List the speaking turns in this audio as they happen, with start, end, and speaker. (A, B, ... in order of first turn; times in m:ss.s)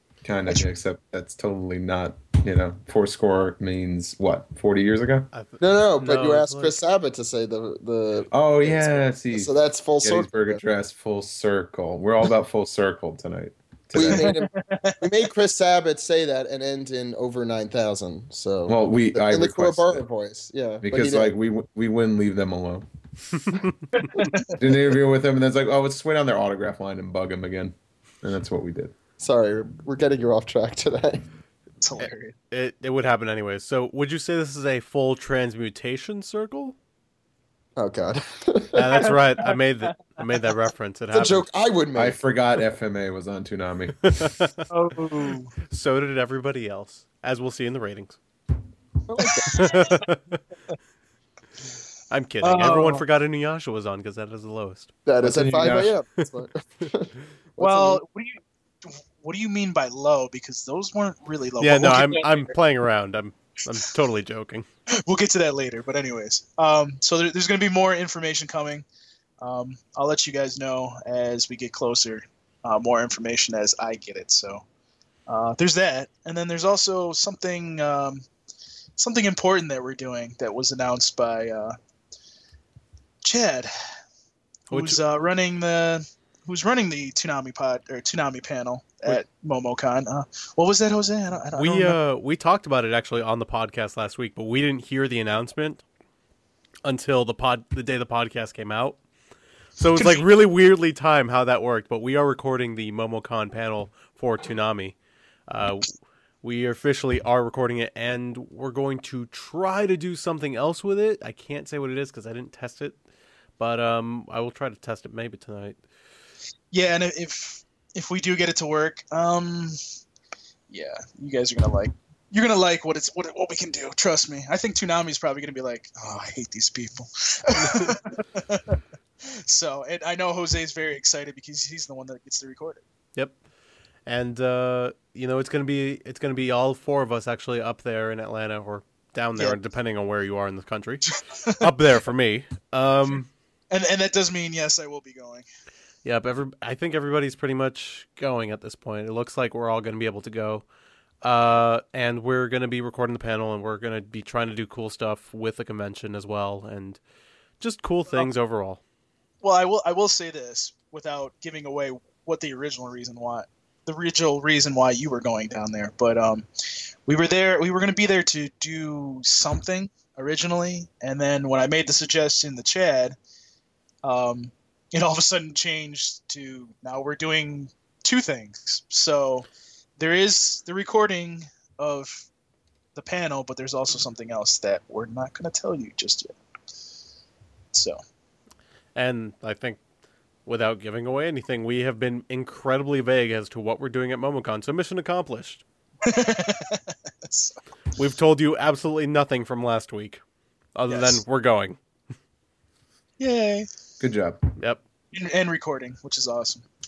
0:00.2-0:05.3 A
0:05.3-0:06.8 B
0:05.6-0:10.6 C
0:08.3-0:14.4 A
0:13.9-0:21.3 C
0:14.0-0:15.0 D
0:18.7-0:20.0 A
0:20.8-0:22.9 A
0:23.5-0:24.2 B
0:24.0-0:24.5 D
0:24.6-0:28.9 A
0:29.2-0:31.2 C
0:31.8-0:32.3 D
0:32.0-0:36.8 B
0:37.8-0:39.1 C
0:38.7-0:41.5 B
0:39.0-0:39.6 D
0:41.1-0:42.2 C
0:42.0-0:44.3 A
0:44.1-0:44.7 B
0:44.7-0:45.5 D
0:45.7-0:48.2 B
0:49.1-0:49.7 C
0:49.3-0:49.7 D
0:49.5-0:50.4 B
0:52.1-0:54.9 B
0:52.4-0:53.0 D
0:55.0-0:58.0 C
0:55.2-0:55.9 A
0:57.6-1:02.5 D
1:01.6-1:04.6 B
1:05.0-1:08.8 D
1:09.4-1:14.6 D
1:15.3-1:18.2 D
1:19.0-1:21.8 D
1:23.2-1:23.7 D
1:24.7-1:25.0 B
1:24.7-1:32.0 D
1:31.5-1:35.8 B
1:36.8-1:39.0 B
1:39.8-1:45.0 B
1:40.0-1:40.2 D
1:45.5-1:53.0 B
1:53.6-1:55.8 B
1:56.7-1:59.8 D
2:00.7-2:12.8 D
2:07.6-2:08.0 B
2:14.0-2:23.3 B
2:21.1-2:21.7 D
2:23.7-2:25.4 D
2:26.0-2:30.6 B
2:31.2-2:37.0 B
2:37.6-2:38.8 B
2:39.4-2:46.5 D
2:47.0-2:53.2 D
2:54.0-2:59.5 D
3:00.0-3:02.3 D
3:03.0-3:06.4 D
3:07.7-3:08.0 D
3:08.9-3:09.8 B
3:10.4-3:15.6 B
3:16.0-3:17.6 D
3:18.0-3:20.2 B
3:20.7-3:21.8 B
3:20.9-3:21.2 D
3:23.2-3:23.7 D
3:24.0-3:24.4 A
3:25.1-3:26.6 D